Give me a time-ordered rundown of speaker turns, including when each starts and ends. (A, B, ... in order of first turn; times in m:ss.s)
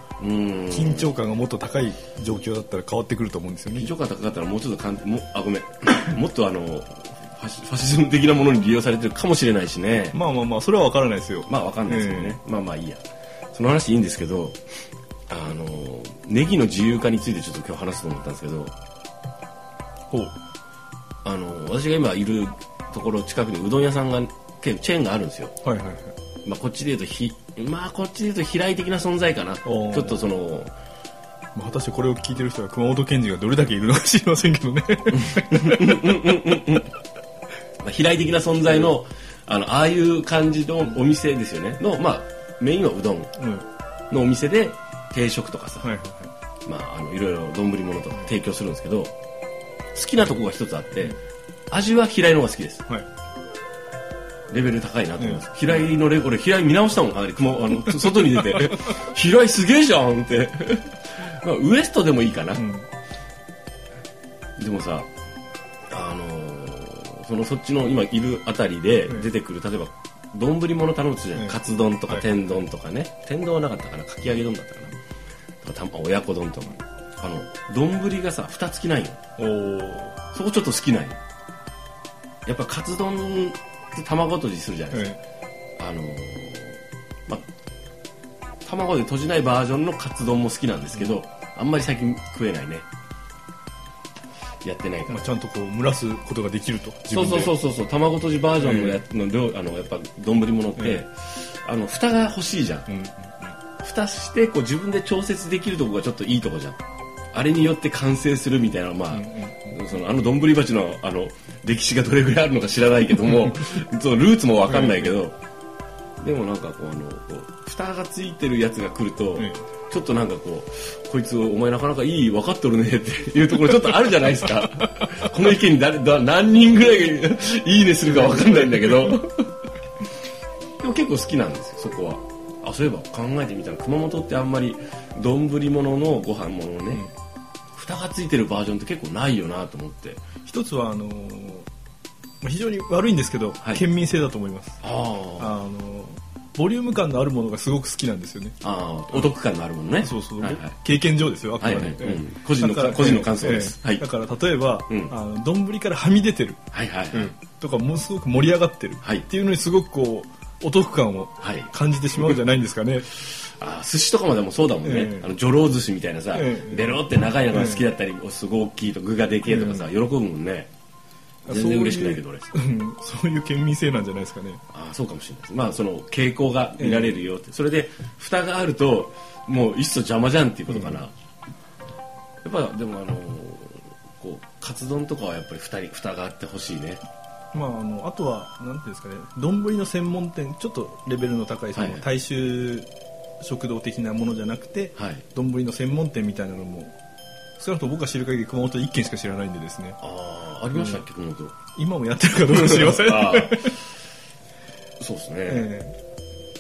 0:00.2-0:01.1 A
0:00.7-0:03.9 B
0:03.7-0:10.2 A
0:10.1-0:12.4 B
0:11.4-0:14.6 A
0:15.3-0:18.7 A
0:21.2-0:25.5 A
0:25.6-0:26.2 B
0:26.4-0:30.7 A
0:29.6-0:30.2 B
0:31.6-0:36.0 B
0:35.2-0:36.9 A
0:37.8-0:43.3 A
0:43.4-0:43.7 B
0:44.1-0:45.9 A
0:45.8-0:46.3 B
0:46.6-0:49.1 A
0:49.9-0:51.2 A
0:51.7-0:52.8 A
0:54.5-1:02.6 A
0:55.2-0:55.5 B
0:58.1-0:58.9 B
1:02.6-1:02.9 B
1:04.6-1:05.1 A
1:05.9-1:14.9 A
1:11.4-1:12.5 B
1:15.6-1:19.2 A
1:19.4-1:20.2 B
1:20.3-1:21.2 A
1:22.5-1:25.1 A
1:24.9-1:25.2 B
1:25.8-1:27.4 A
1:28.6-1:32.9 A
1:34.6-1:35.3 A
1:35.1-1:37.6 B
1:37.1-1:42.9 A
1:38.6-1:39.0 B
1:40.8-1:41.0 B
1:42.9-1:43.6 B
1:43.8-1:55.4 A
1:49.1-1:49.8 B
1:54.7-1:55.1 B
1:56.2-2:09.5 A
1:59.4-1:59.6 B
2:04.6-2:05.0 B
2:08.0-2:09.2 B
2:10.8-2:17.1 A
2:17.8-2:20.2 A
2:20.5-2:21.7 B
2:22.4-2:24.8 B
2:24.8-2:25.5 A
2:25.4-2:28.6 B
2:28.6-2:30.8 A
2:30.0-2:36.6 B
2:31.6-2:34.0 A
2:34.9-2:35.1 A
2:36.7-2:37.4 A
2:37.1-2:43.1 B
2:41.4-2:42.4 A
2:43.1-2:50.7 A
2:44.8-2:45.3 B
2:46.3-2:47.9 B
2:49.4-2:49.9 B
2:51.5-2:52.5 A
2:51.5-2:54.6 B
2:54.7-3:01.1 A
2:56.8-2:57.2 B
3:00.7-3:01.0 B
3:02.4-3:07.0 A
3:07.5-3:12.9 B
3:11.8-3:12.1 A
3:13.4-3:16.9 B
3:15.0-3:15.2 A
3:17.6-3:20.0 B
3:20.0-3:21.6 A
3:20.7-3:21.0 B
3:21.8-3:23.8 B
3:22.5-3:23.8 A
3:25.0-3:25.7 A
3:25.5-3:26.0 B